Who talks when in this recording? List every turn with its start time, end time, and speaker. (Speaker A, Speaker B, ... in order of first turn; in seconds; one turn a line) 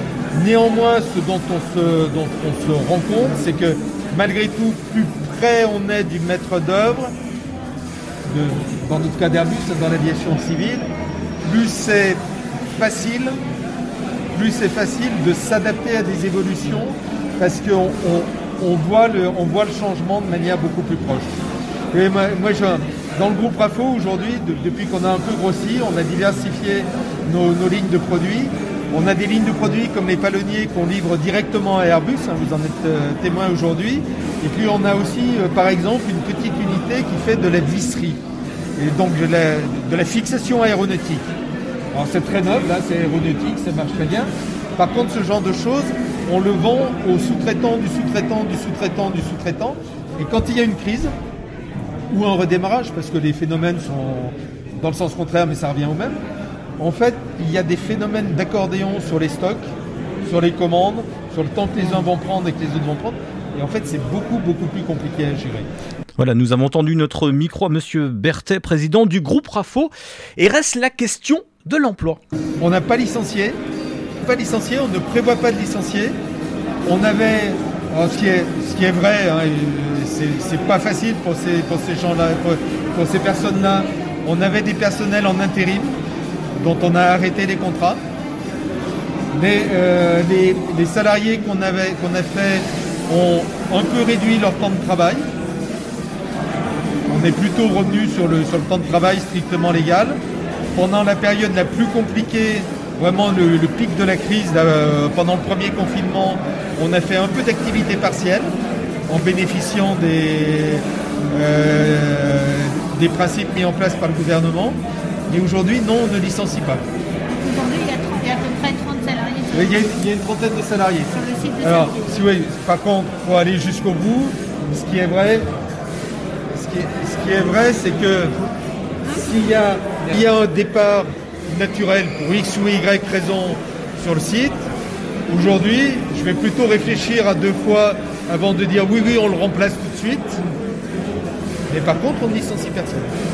Speaker A: 0.3-7.1
Speaker A: 8.3-10.9
Speaker A: 11.4-12.2
Speaker A: 12.8-13.4
Speaker A: 14.3-21.3
Speaker A: 21.9-38.2
Speaker A: 38.8-41.3
Speaker A: 41.9-51.1
Speaker A: 52.1-56.2
Speaker A: 56.8-59.7
Speaker A: 60.2-65.7
Speaker B: 66.2-72.2
Speaker A: 72.6-73.6
Speaker A: 74.2-76.2
Speaker A: 76.8-86.0
Speaker A: 86.6-88.0
Speaker A: 89.3-95.3
Speaker A: 97.1-100.2
Speaker A: 100.7-108.5
Speaker A: 109.1-116.8
Speaker C: 117.5-119.5
Speaker A: 119.5-125.5
Speaker C: 121.1-121.9
Speaker A: 126.5-128.4
Speaker A: 129.1-134.6
Speaker A: 135.3-140.4
Speaker A: 141.7-143.1